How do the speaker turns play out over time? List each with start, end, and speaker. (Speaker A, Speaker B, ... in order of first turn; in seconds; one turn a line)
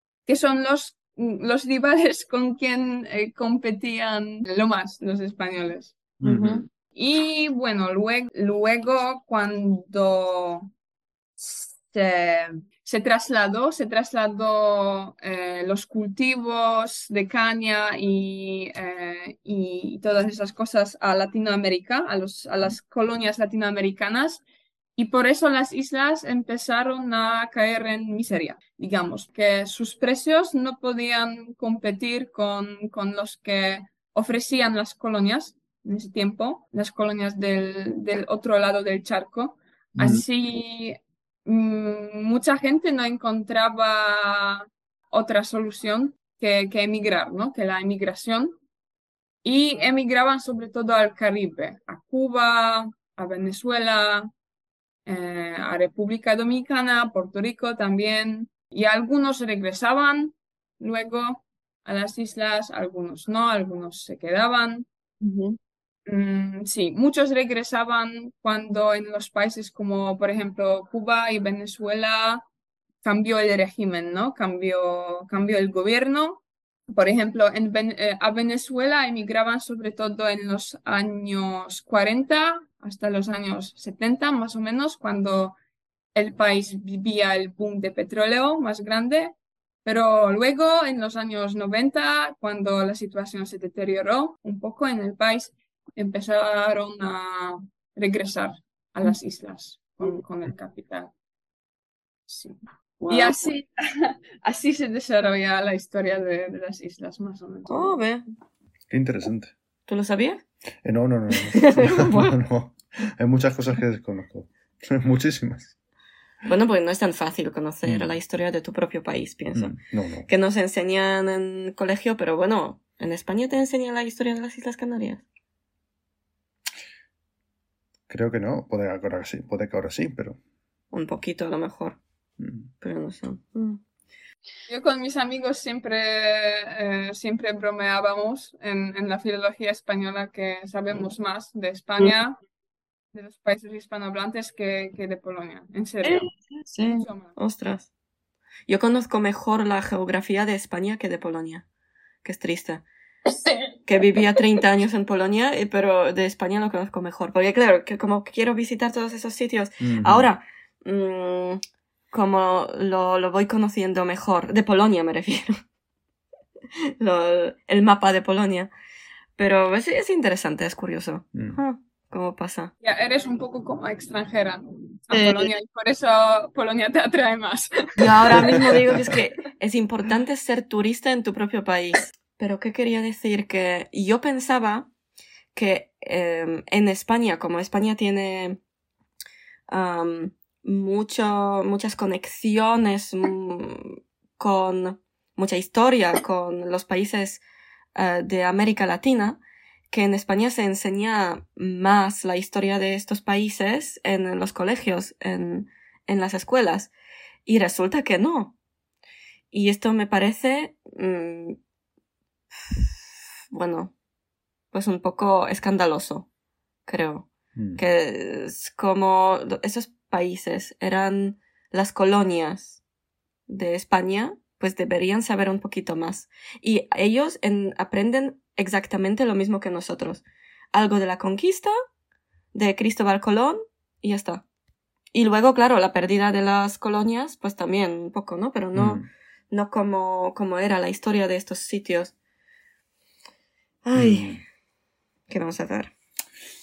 Speaker A: 0.3-6.0
Speaker B: 6.2-6.7
Speaker C: 6.2-6.7
Speaker A: 7.0-10.7
Speaker A: 11.4-24.4
Speaker A: 25.0-48.5
Speaker B: 40.0-40.2
Speaker A: 49.4-54.3
Speaker A: 55.1-64.8
Speaker C: 65.2-65.6
Speaker A: 66.1-72.4
Speaker A: 73.0-85.5
Speaker A: 86.2-89.3
Speaker A: 89.8-101.1
Speaker A: 102.3-102.6
Speaker C: 103.0-103.5
Speaker A: 103.1-108.0
Speaker C: 107.7-108.2
Speaker B: 108.9-109.5
Speaker C: 109.9-110.4
Speaker B: 110.8-115.8
Speaker C: 111.3-112.4
Speaker C: 116.4-119.8
Speaker B: 117.9-118.1
Speaker B: 119.5-120.3
Speaker C: 120.3-125.2
Speaker B: 128.1-130.4
Speaker C: 130.9-132.0
Speaker B: 132.4-132.7
Speaker C: 132.8-133.8
Speaker A: 134.7-142.4
Speaker A: 143.1-146.3
Speaker C: 146.0-147.9
Speaker A: 146.9-147.4
Speaker C: 148.7-151.7
Speaker C: 152.2-152.9
Speaker C: 153.8-165.6
Speaker B: 159.8-160.3
Speaker C: 167.0-168.7
Speaker C: 169.4-172.7
Speaker A: 172.8-178.8
Speaker C: 175.1-175.5
Speaker C: 178.0-184.9
Speaker C: 185.6-188.6
Speaker C: 189.7-197.4
Speaker C: 197.9-199.4
Speaker C: 199.9-206.9
Speaker C: 207.5-208.6
Speaker C: 209.5-211.6
Speaker C: 212.5-213.9
Speaker C: 214.7-216.3
Speaker C: 216.9-222.8
Speaker B: 217.6-217.8
Speaker C: 223.5-231.7
Speaker C: 232.5-234.4
Speaker C: 235.1-242.1
Speaker B: 238.7-239.1
Speaker C: 243.8-244.4
Speaker B: 243.9-244.4
Speaker C: 245.3-245.9